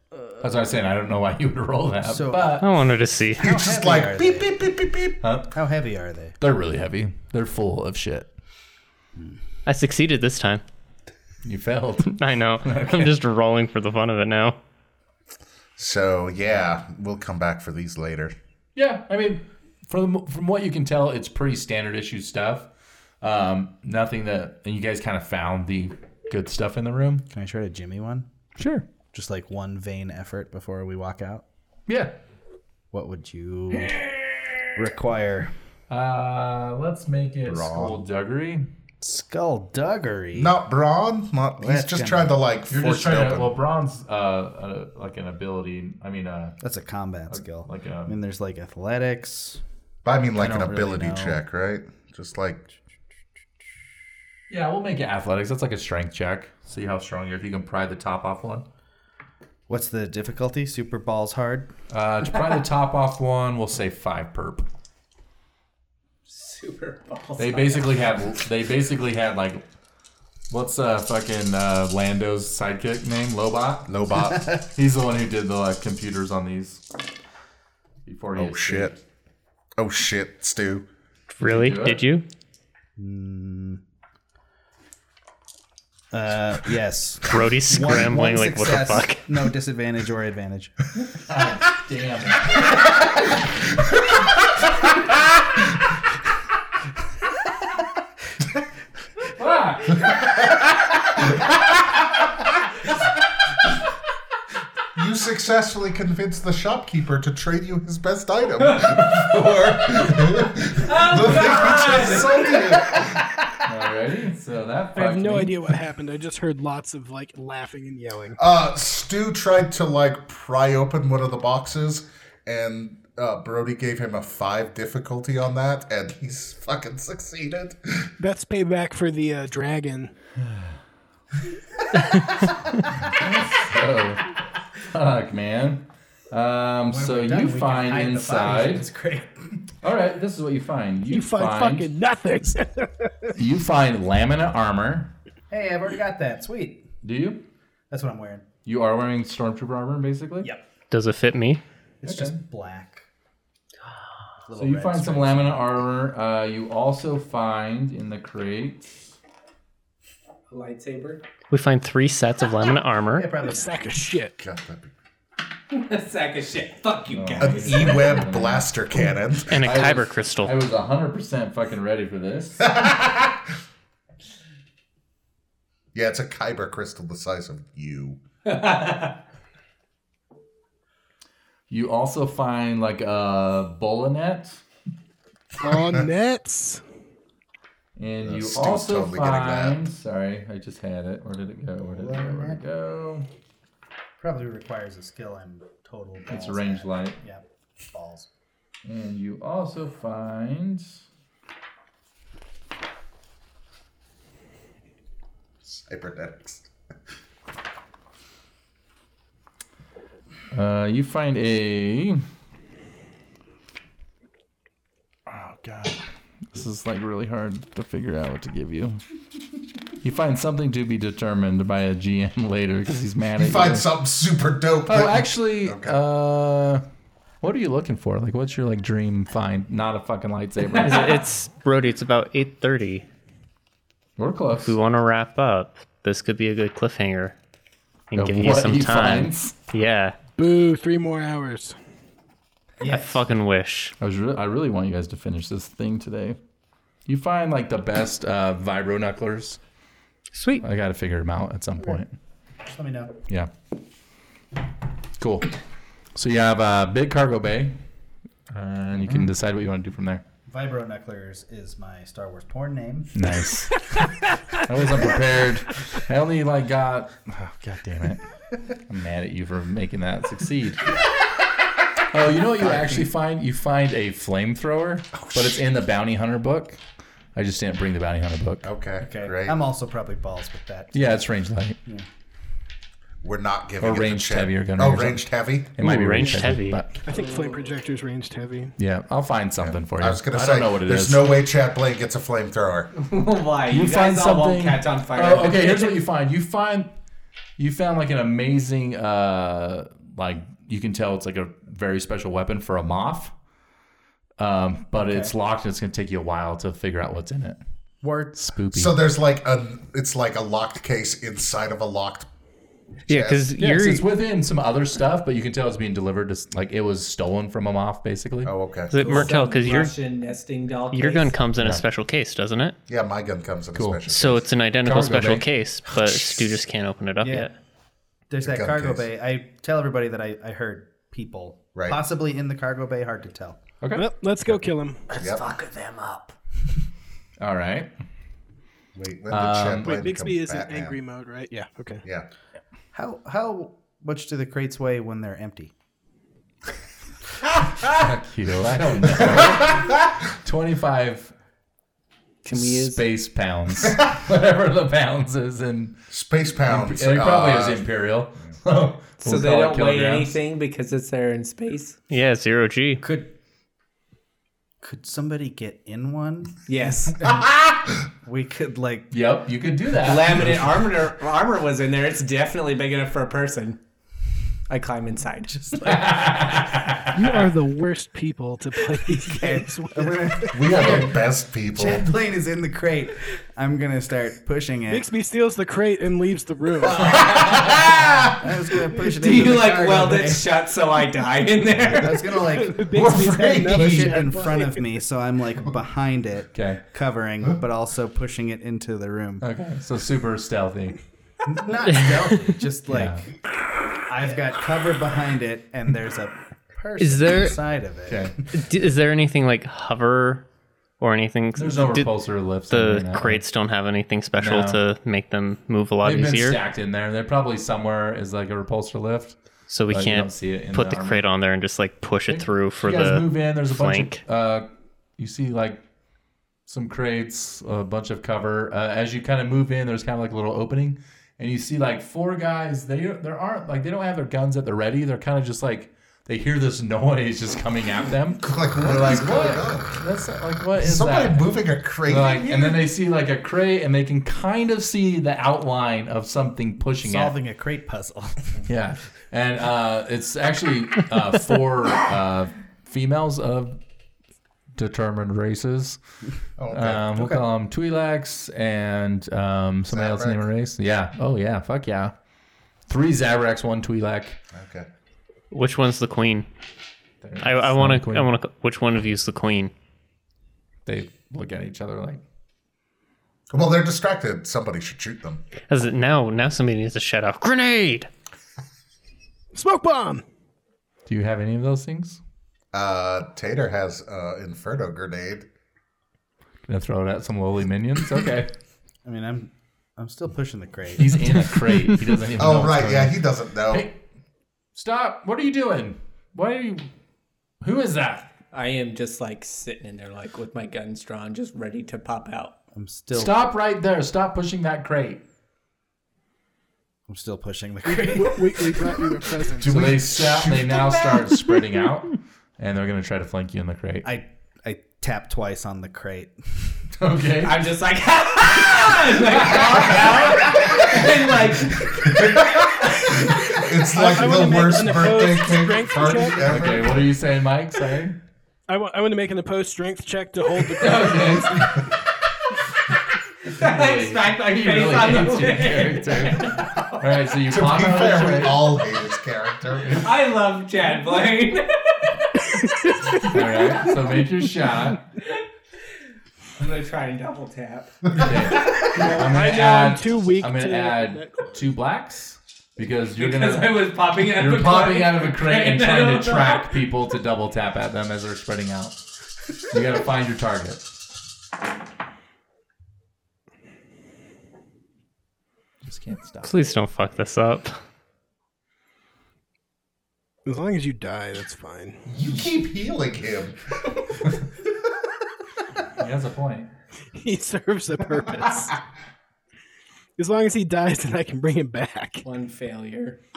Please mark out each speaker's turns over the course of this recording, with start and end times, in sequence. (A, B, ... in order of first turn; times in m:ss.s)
0:00.4-0:02.7 A
0:02.0-0:02.6 B
0:02.6-0:03.4 C
0:03.4-0:04.5 B
0:03.4-0:05.2 D
0:05.2-0:05.5 A
0:05.5-0:06.4 B
0:06.4-0:08.3 A
0:09.7-0:10.6 C
0:11.4-0:13.2 A
0:12.0-0:14.6 C
0:15.8-0:18.3 D
0:18.8-0:22.7 A
0:23.2-0:27.2 A
0:27.3-0:28.3 B
0:28.6-0:28.8 A
0:29.1-0:31.4 B
0:31.9-0:32.1 A
0:32.9-0:34.0 B
0:33.8-0:34.6 A
0:34.8-0:35.5 B
0:35.9-0:38.7 A
0:37.5-0:38.0 D
0:39.0-0:40.6 B
0:40.3-0:43.5 D
0:41.6-0:42.4 B
0:42.7-0:46.6 A
0:46.6-0:49.6 B
0:47.3-0:48.2 A
0:50.0-0:52.6 D
0:50.4-0:51.4 B
0:50.4-0:50.7 A
0:54.5-0:58.6 A
0:59.7-1:01.7 B
1:01.9-1:04.7 A
1:06.3-1:08.0 E
1:07.4-1:09.6 A
1:10.5-1:13.9 A
1:13.9-1:14.5 D
1:14.5-1:16.8 A
1:18.1-1:19.0 A
1:18.4-1:19.0 D
1:19.8-1:20.9 D
1:21.4-1:22.2 C
1:21.4-1:22.0 A
1:23.0-1:23.8 B
1:26.1-1:30.9 B
1:27.3-1:29.2 C
1:31.2-1:32.6 A
1:39.4-1:40.1 A
1:45.0-1:53.4 D
1:50.7-1:52.8 E
1:53.6-1:55.6 A
1:55.0-1:58.4 F
1:58.4-2:08.1 D
2:08.2-2:10.1 F
2:10.4-2:10.8 A
2:13.0-2:14.3 A
2:14.8-2:18.9 A
2:16.9-2:19.5 B
2:19.8-2:21.9 A
2:21.1-2:23.3 F
2:23.3-2:25.1 A
2:25.5-2:26.9 B
2:27.0-2:27.4 A
2:27.9-2:28.5 B
2:28.6-2:30.5 A
2:30.9-2:31.6 C
2:32.0-2:33.0 B
2:32.0-2:32.4 A
2:34.5-2:35.7 B
2:34.6-2:38.9 A
2:40.5-2:41.2 E
2:41.5-2:43.3 C
2:43.1-2:44.0 B
2:43.4-2:44.4 F
2:44.4-2:44.9 D
2:45.7-2:48.0 E
2:47.1-2:48.8 A
2:47.4-2:49.6 D
2:49.5-2:50.5 C
2:49.6-2:52.8 A
2:52.6-2:53.4 D
2:55.9-2:58.2 D
2:58.4-2:59.2 E
3:01.7-3:04.6 A
3:05.6-3:06.8 F
3:08.0-3:13.3 A
3:08.2-3:09.8 D
3:11.8-3:12.6 B
3:14.2-3:18.3 B
3:16.3-3:17.2 A
3:18.8-3:21.0 A
3:25.6-3:26.7 D
3:30.5-3:32.2 A
3:35.3-3:39.0 A
3:40.0-3:43.9 A
3:43.4-3:46.0 D
3:44.9-3:46.8 A
3:47.4-3:51.2 A
3:50.8-3:53.1 C
3:54.2-3:54.8 A
3:54.6-3:57.4 C
3:58.1-4:00.2 C
3:58.2-3:59.6 A
4:00.4-4:01.8 F
4:02.8-4:03.2 B
4:02.8-4:03.9 C
4:04.0-4:06.4 A
4:07.1-4:09.6 A
4:10.4-4:10.6 C
4:10.6-4:12.1 A
4:12.7-4:13.1 B
4:15.2-4:15.5 A
4:16.2-4:17.8 A
4:18.5-4:20.2 A
4:20.5-4:23.2 B
4:23.2-4:28.2 A
4:28.9-4:31.0 A
4:32.1-4:36.8 A
4:32.6-4:33.1 B
4:37.4-4:38.7 A
4:38.6-4:39.6 D
4:39.0-4:41.2 B
4:40.9-4:41.8 A
4:43.2-4:45.7 D
4:43.8-4:47.0 A
4:45.8-4:46.8 C
4:47.0-4:48.7 F
4:48.8-4:51.3 A
4:49.6-4:52.9 D
4:53.0-4:56.0 E
4:53.7-4:56.9 A
4:57.6-5:03.3 A
5:04.4-5:07.6 A
5:05.0-5:05.3 B
5:08.0-5:08.4 B
5:08.4-5:09.0 A
5:08.7-5:12.3 D
5:13.1-5:14.1 C
5:13.1-5:13.5 D
5:13.6-5:18.5 A
5:18.4-5:19.0 D
5:18.9-5:19.9 C
5:19.0-5:21.3 E
5:20.9-5:22.8 C
5:21.6-5:21.8 A
5:22.9-5:24.5 D
5:23.7-5:24.0 A
5:24.1-5:27.5 C
5:24.8-5:25.5 A
5:27.2-5:27.5 B
5:28.3-5:33.6 B
5:28.4-5:29.1 D
5:31.8-5:32.0 D
5:33.8-5:34.1 A
5:33.9-5:35.1 F
5:35.2-5:35.4 D
5:35.7-5:36.2 E
5:37.4-5:37.9 A
5:39.0-5:41.0 D
5:39.3-5:40.0 A
5:39.8-5:42.0 F
5:42.9-5:45.7 B
5:47.8-5:51.3 A
5:49.4-5:49.9 D
5:52.4-5:53.0 E
5:52.5-5:56.0 A
5:56.1-5:57.8 D
5:56.6-6:00.4 A
5:59.2-6:02.0 E
6:02.1-6:03.0 C
6:03.0-6:03.3 B
6:04.8-6:06.6 B
6:06.7-6:07.2 E
6:07.2-6:07.5 B
6:08.2-6:09.1 B
6:09.1-6:10.8 A
6:10.0-6:13.8 E
6:14.7-6:16.3 E
6:15.7-6:16.0 B
6:15.8-6:17.4 A
6:17.1-6:20.6 F
6:19.5-6:21.2 B
6:20.5-6:22.1 D
6:20.7-6:21.1 A
6:21.7-6:25.1 B
6:24.9-6:27.2 F
6:26.9-6:30.5 B
6:27.0-6:27.8 E
6:27.4-6:27.9 A
6:29.2-6:32.3 E
6:31.9-6:32.9 B
6:32.5-6:34.8 F
6:32.9-6:34.3 D
6:33.7-6:39.5 B
6:36.5-6:36.8 A
6:39.4-6:41.0 A
6:41.4-6:43.3 B
6:41.9-6:42.6 C
6:42.9-6:43.3 A
6:44.1-6:48.4 B
6:47.0-6:47.6 C
6:48.1-6:48.4 A
6:48.5-6:50.4 C
6:51.0-6:52.2 C
6:51.6-6:53.4 A
6:52.7-6:56.6 C
6:54.4-6:54.8 A
6:56.0-6:59.4 A
6:59.7-7:04.2 C
6:59.9-7:01.2 A
7:02.3-7:04.7 A
7:05.2-7:05.8 A
7:06.7-7:27.4 A
7:18.4-7:20.0 D
7:20.8-7:22.8 D
7:27.0-7:28.6 B
7:28.6-7:33.8 A
7:34.8-7:36.0 A
7:36.6-7:37.1 D
7:36.7-7:42.1 A
7:37.2-7:37.4 B
7:39.9-7:40.5 D
7:42.9-7:44.4 A
7:44.5-7:44.9 D
7:45.5-7:46.5 C
7:47.2-7:48.3 A
7:47.4-7:49.7 C
7:50.9-7:52.2 A
7:53.5-7:55.4 D
7:55.7-7:58.1 C
7:59.5-8:00.2 F
8:01.1-8:02.2 A
8:02.7-8:05.5 D
8:06.7-8:08.5 A
8:09.0-8:11.4 B
8:11.0-8:13.2 A
8:12.4-8:13.9 D
8:13.7-8:14.0 A
8:14.8-8:16.9 A
8:17.6-8:18.3 A
8:18.5-8:22.5 E
8:22.8-8:23.4 B
8:23.1-8:25.2 A
8:27.1-8:28.9 B
8:27.8-8:30.1 F
8:29.6-8:34.1 A
8:29.6-8:30.8 D
8:34.0-8:36.8 B
8:37.0-8:37.6 A
8:37.4-8:42.6 E
8:39.2-8:41.0 A
8:42.0-8:47.1 D
8:43.9-8:46.5 F
8:46.4-8:48.2 A
8:48.7-8:51.7 F
8:50.8-8:51.9 A
8:50.9-8:51.5 E
8:53.4-8:57.0 E
8:53.5-8:58.7 A
8:57.5-9:00.1 D
8:59.9-9:02.6 E
9:02.6-9:03.4 F
9:03.2-9:05.0 A
9:06.6-9:08.0 E
9:08.2-9:19.0 A
9:08.2-9:08.5 D
9:08.7-9:11.7 F
9:13.2-9:16.8 E
9:19.7-9:20.8 A
9:25.8-9:26.8 A
9:26.4-9:27.8 C
9:30.5-9:32.0 F
9:32.1-9:34.1 D
9:36.0-9:36.7 A
9:37.2-9:38.8 F
9:40.2-9:42.2 F
9:42.2-9:43.2 E